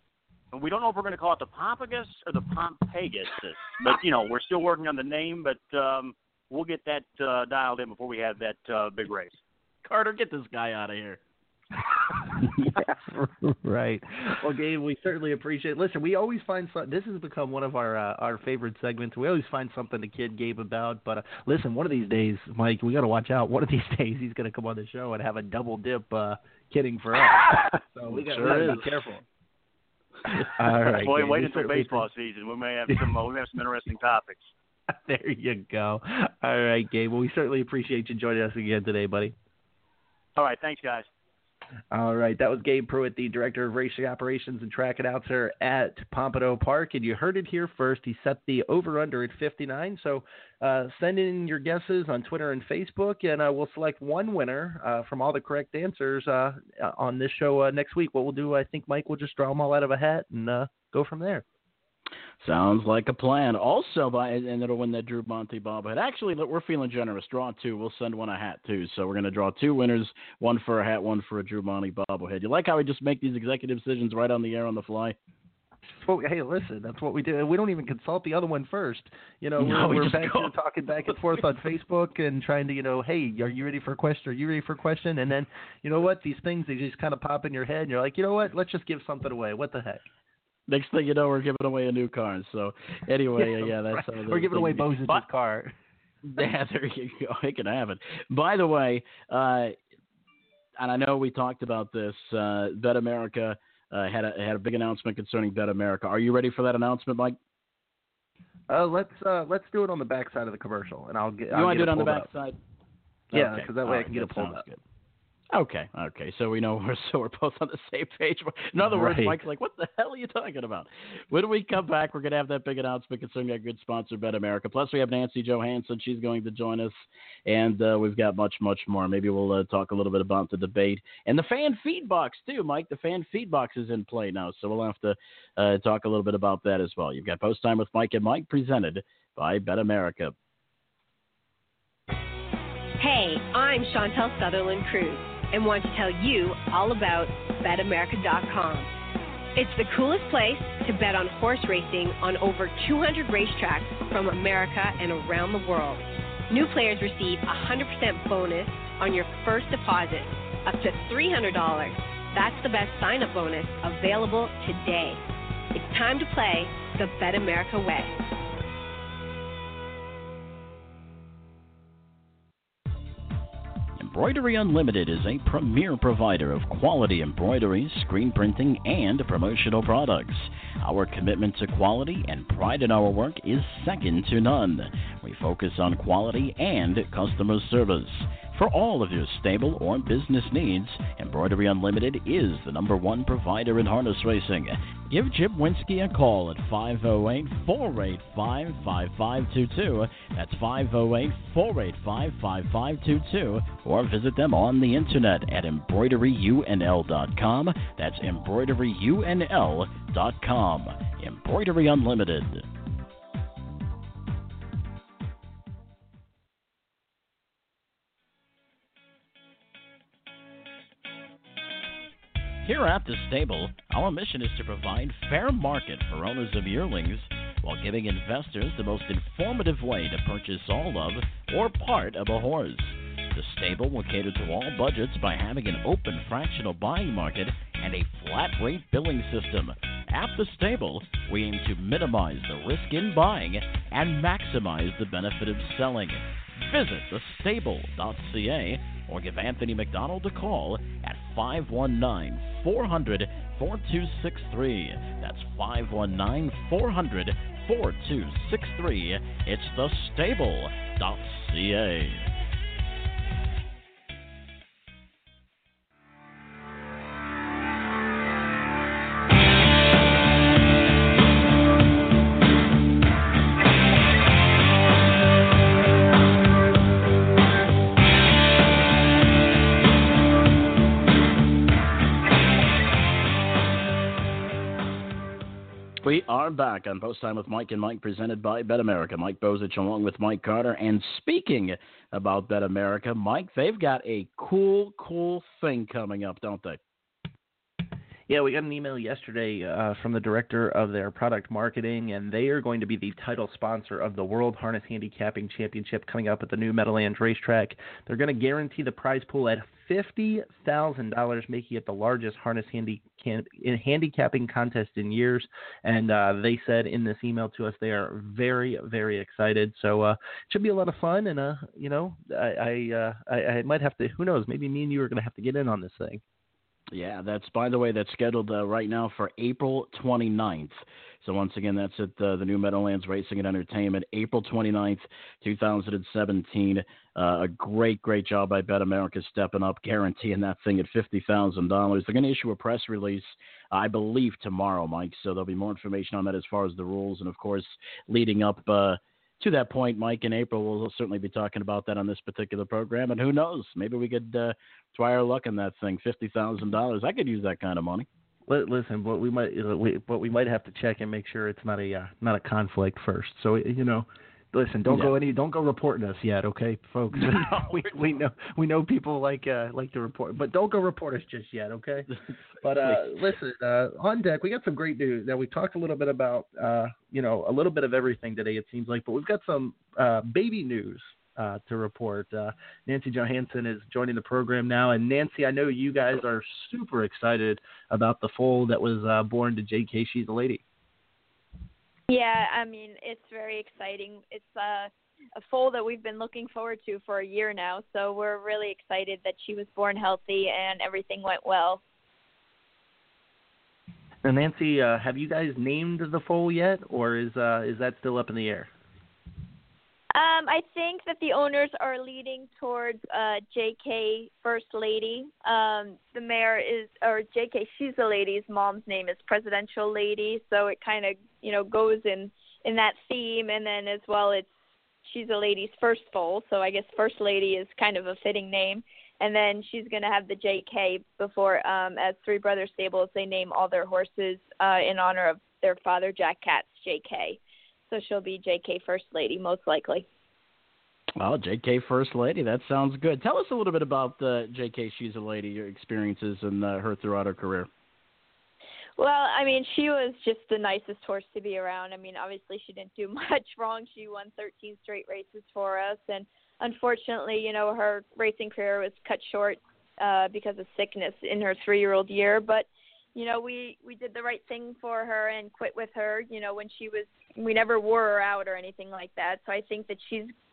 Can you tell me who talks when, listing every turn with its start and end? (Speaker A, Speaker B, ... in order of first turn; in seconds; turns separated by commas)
Speaker A: 0.5-9.3, Speaker B: 9.8-11.2, Speaker B: 12.6-12.9, Speaker C: 13.1-29.2, Speaker B: 28.1-28.9, Speaker C: 30.4-32.0, Speaker A: 31.0-34.5, Speaker C: 34.9-39.4, Speaker A: 40.4-41.1, Speaker C: 41.9-61.4, Speaker B: 62.4-75.2, Speaker C: 76.0-90.0, Speaker B: 79.6-80.5, Speaker B: 90.7-95.2, Speaker C: 93.4-95.7, Speaker B: 96.2-99.8, Speaker B: 100.8-107.4, Speaker C: 108.7-112.3, Speaker B: 111.5-112.6, Speaker B: 113.3-114.8, Speaker C: 113.3-114.6, Speaker B: 115.5-140.3, Speaker C: 118.8-119.4, Speaker D: 143.0-148.9, Speaker D: 149.6-165.2, Speaker D: 165.7-168.2, Speaker B: 174.0-212.7, Speaker B: 222.6-262.3, Speaker B: 286.0-296.8, Speaker C: 298.3-326.2, Speaker B: 326.9-358.1, Speaker C: 358.5-372.1, Speaker B: 364.9-365.2, Speaker B: 367.1-367.8, Speaker C: 372.6-390.6, Speaker B: 372.7-373.1, Speaker E: 392.1-401.8, Speaker C: 404.2-408.7, Speaker E: 410.1-424.5, Speaker E: 425.1-440.1, Speaker B: 441.2-447.7, Speaker E: 449.0-470.3